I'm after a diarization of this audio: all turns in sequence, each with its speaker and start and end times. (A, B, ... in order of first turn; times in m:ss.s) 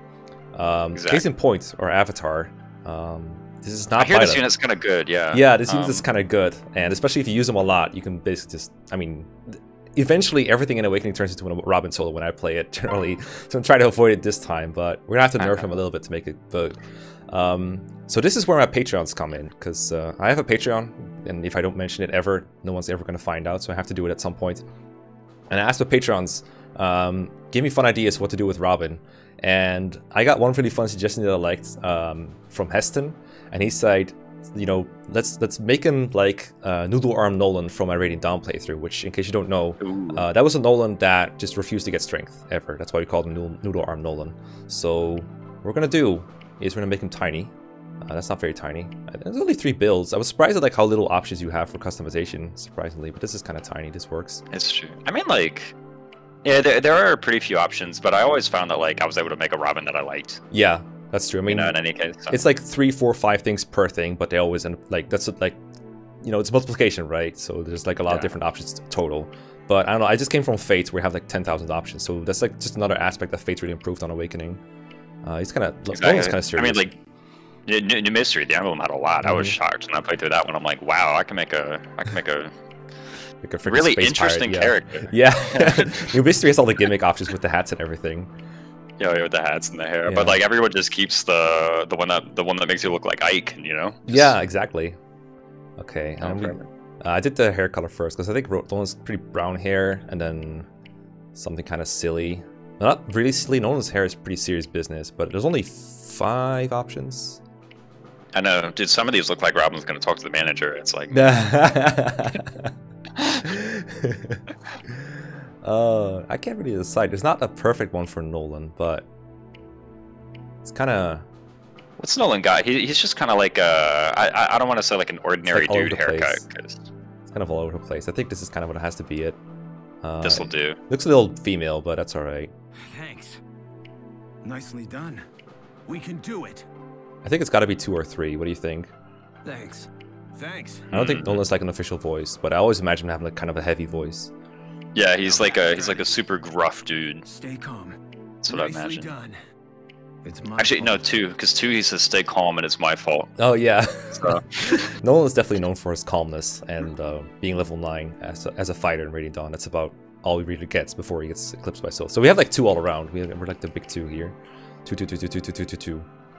0:00.5-0:04.5 A
0:00.9-0:01.2 B
0:04.0-0:06.0 B
0:05.3-0:16.8 A
0:15.4-0:15.7 B
0:17.3-0:24.6 A
0:25.5-0:54.4 A
0:39.8-0:40.3 B
0:54.5-0:55.7 B
0:56.4-1:00.4 B
1:00.5-1:01.8 A
1:01.5-1:02.4 B
1:02.3-1:05.6 A
1:06.2-1:14.6 A
1:15.2-1:17.0 A
1:15.9-1:16.9 B
1:17.7-1:22.5 B
1:19.2-1:19.6 A
1:23.4-1:28.3 A
1:23.6-1:26.1 B
1:29.0-1:34.3 B
1:30.1-1:30.4 A
1:34.1-1:35.0 A
1:35.8-1:40.7 A
1:36.2-1:36.6 B
1:41.3-1:47.4 A
1:48.3-1:51.4 B
1:51.1-1:52.7 A
1:53.4-1:55.1 A
1:55.6-1:59.0 A
2:00.6-2:01.2 A
2:02.0-2:06.8 B
2:05.5-2:06.4 A
2:07.3-2:09.4 A
2:10.0-2:12.5 A
2:10.2-2:10.8 B
2:12.8-2:13.4 C
2:14.4-2:15.2 C
2:15.8-2:16.6 C
2:17.2-2:18.9 A
2:19.4-2:20.9 C
2:20.9-2:21.4 B
2:20.9-2:24.3 A
2:24.9-2:27.2 B
2:25.2-2:26.1 C
2:27.2-2:28.0 C
2:28.4-2:29.1 B
2:28.5-2:29.4 C
2:30.2-2:31.0 C
2:30.6-2:33.4 B
2:33.4-2:46.1 A
2:34.2-2:34.5 B